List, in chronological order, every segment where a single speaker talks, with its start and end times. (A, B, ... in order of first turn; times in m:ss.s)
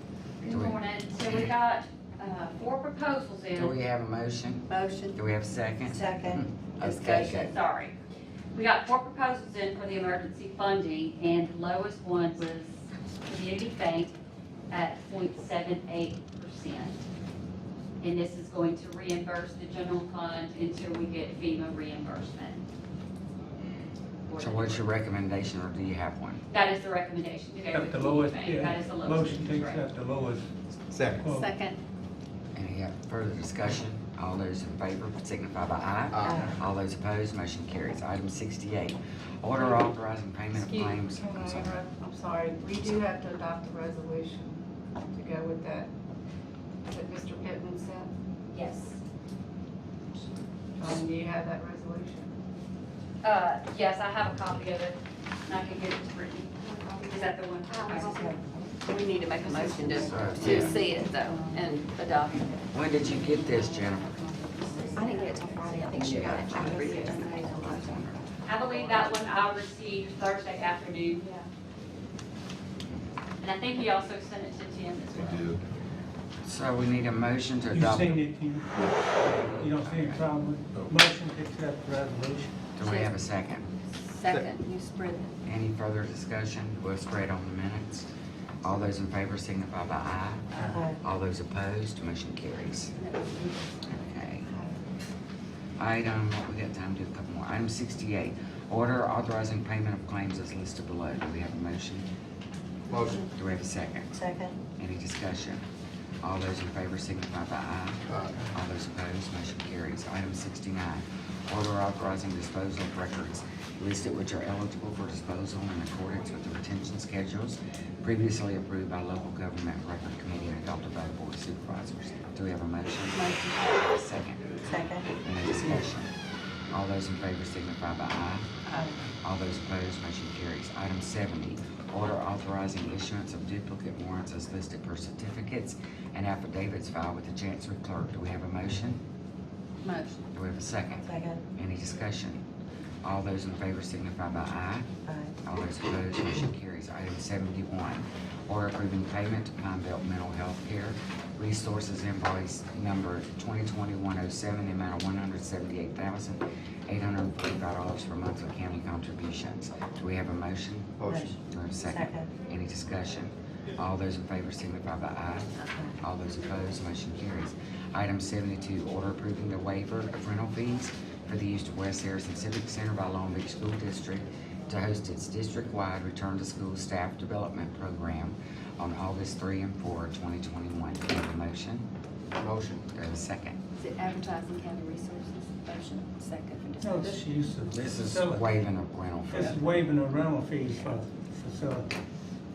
0:00.4-0:03.8 A
0:00.5-0:01.5 B
0:03.6-0:07.6 B
0:04.7-0:05.2 C
0:05.9-0:06.4 D
0:06.8-0:08.0 A
0:08.5-0:14.2 A
0:14.7-0:17.0 A
0:18.0-0:22.6 A
0:24.3-0:24.9 A
0:24.4-0:26.4 B
0:26.5-0:29.8 A
0:27.7-0:30.5 E
0:30.9-0:31.2 F
0:31.2-0:31.5 E
0:31.3-0:31.8 C
0:32.6-0:41.8 B
0:36.1-0:36.5 F
0:41.4-0:44.6 G
0:45.2-0:45.9 G
0:47.0-0:48.1 G
0:48.5-0:49.0 A
0:51.0-0:52.3 G
0:53.2-0:56.5 A
0:56.7-1:08.1 C
0:57.1-0:58.4 A
1:00.0-1:00.9 A
1:00.0-1:00.9 B
1:02.7-1:04.2 B
1:05.0-1:07.5 G
1:06.1-1:08.2 B
1:08.5-1:11.3 A
1:13.4-1:15.5 A
1:15.2-1:15.6 F
1:16.4-1:20.3 B
1:17.7-1:22.6 E
1:22.8-1:23.7 B
1:22.8-1:23.1 C
1:23.9-1:25.3 C
1:25.4-1:28.1 B
1:28.6-1:33.0 B
1:30.5-1:30.8 E
1:33.0-1:33.7 C
1:33.9-1:34.5 B
1:35.8-1:42.1 B
1:42.9-1:43.2 F
1:43.3-1:44.2 B
1:44.2-1:44.6 D
1:44.8-1:45.6 B
1:46.2-2:04.6 B
1:48.1-1:48.4 F
2:03.1-2:03.6 C
2:04.7-2:05.1 D
2:05.2-2:06.1 B
2:06.7-2:08.6 B
2:09.2-2:19.0 B
2:19.8-2:20.2 C
2:20.3-2:22.4 B
2:21.0-2:21.4 D
2:23.0-2:24.9 B
2:25.1-2:25.3 D
2:25.4-3:01.9 B
2:41.0-2:41.3 F
2:41.1-2:42.3 D
3:02.4-3:02.8 F
3:02.9-3:03.6 B
3:03.8-3:07.2 C
3:06.8-3:08.6 E
3:07.8-3:09.6 B
3:09.3-3:11.9 E